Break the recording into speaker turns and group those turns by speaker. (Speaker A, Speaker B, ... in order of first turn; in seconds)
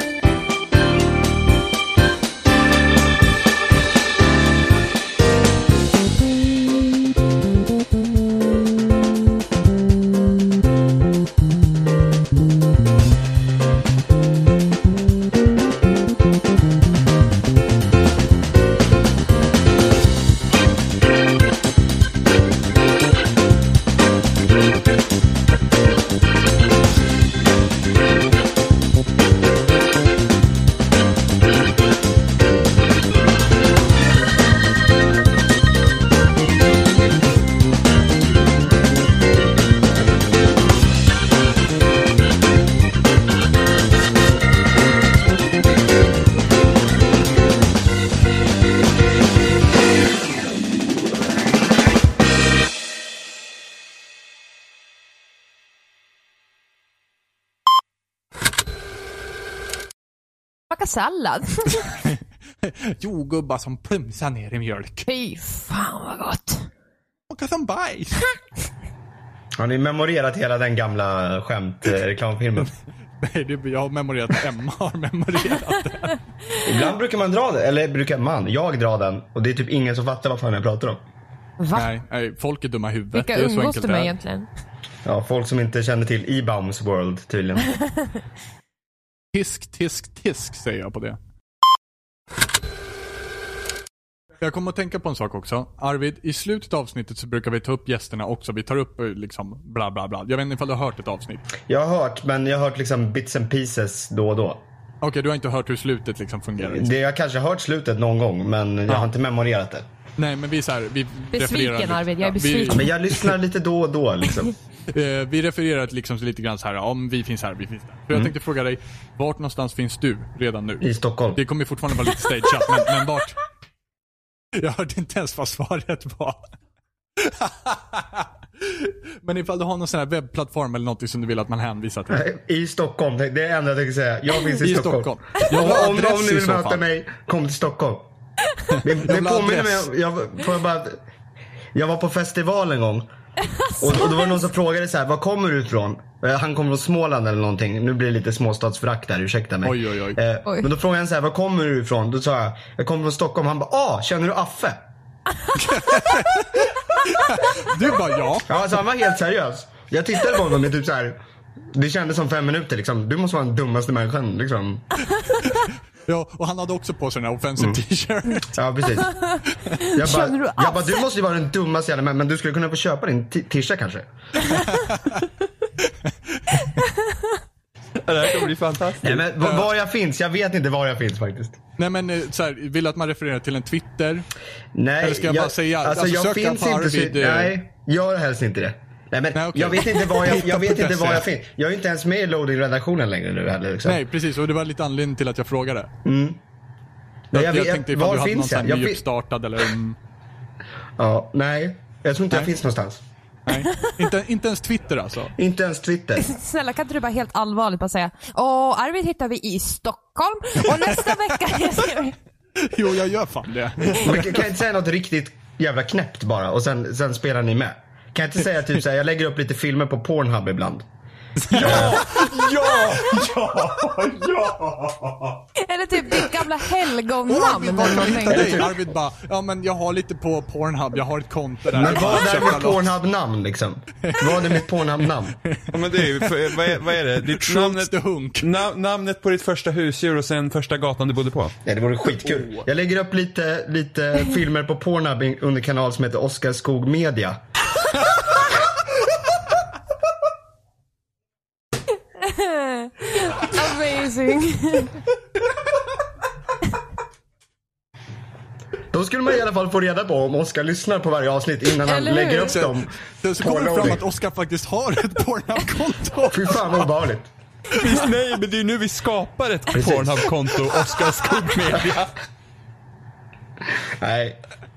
Speaker A: 60.7-61.9, 65.1-66.7, 81.6-81.9, 83.1-84.5, 111.3-112.9, 143.6-144.4, 169.1-171.1, 176.8-177.2, 206.2-212.2, 225.6-228.7, 252.2-255.0, 261.8-262.6
Speaker B: 62.6-65.1, 67.3-68.3, 73.2-76.2, 81.7-84.1, 89.3-91.2, 94.4-101.5, 105.0-106.9, 110.2-113.3, 114.9-123.4, 124.6-126.4, 127.2-132.2, 134.6-136.8, 138.7-139.9, 149.6-150.2, 155.5-158.5, 166.1-168.5, 174.8-175.2, 175.9-176.7, 179.4-179.7, 181.8-184.3, 185.0-187.6, 189.3-191.2, 193.8-195.9, 197.3-200.0, 203.4-205.3, 210.8-211.2, 212.6-214.5, 221.4-224.1, 227.2-232.9, 234.0-234.7, 235.4-238.5, 242.2-242.7, 262.4-266.9
Speaker C: 69.5-72.7, 76.6-81.0, 85.0-87.8, 101.7-104.6, 106.6-109.8, 112.7-114.5, 120.8-121.4, 132.1-138.1, 138.8-141.0, 141.7-143.1, 143.8-154.8, 158.5-161.2, 161.7-164.8, 168.4-174.6, 179.0-181.6, 184.7-194.0, 196.0-196.4, 197.3-199.0, 201.0-203.0, 205.4-206.3, 214.0-220.8, 221.5-222.1, 231.7-235.3, 241.6-247.4, 258.9-264.0, 266.3-267.3, 269.7-270.3, 273.7-274.4
Speaker D: 178.0-179.3, 221.6-225.1, 235.7-241.5, 267.7-272.1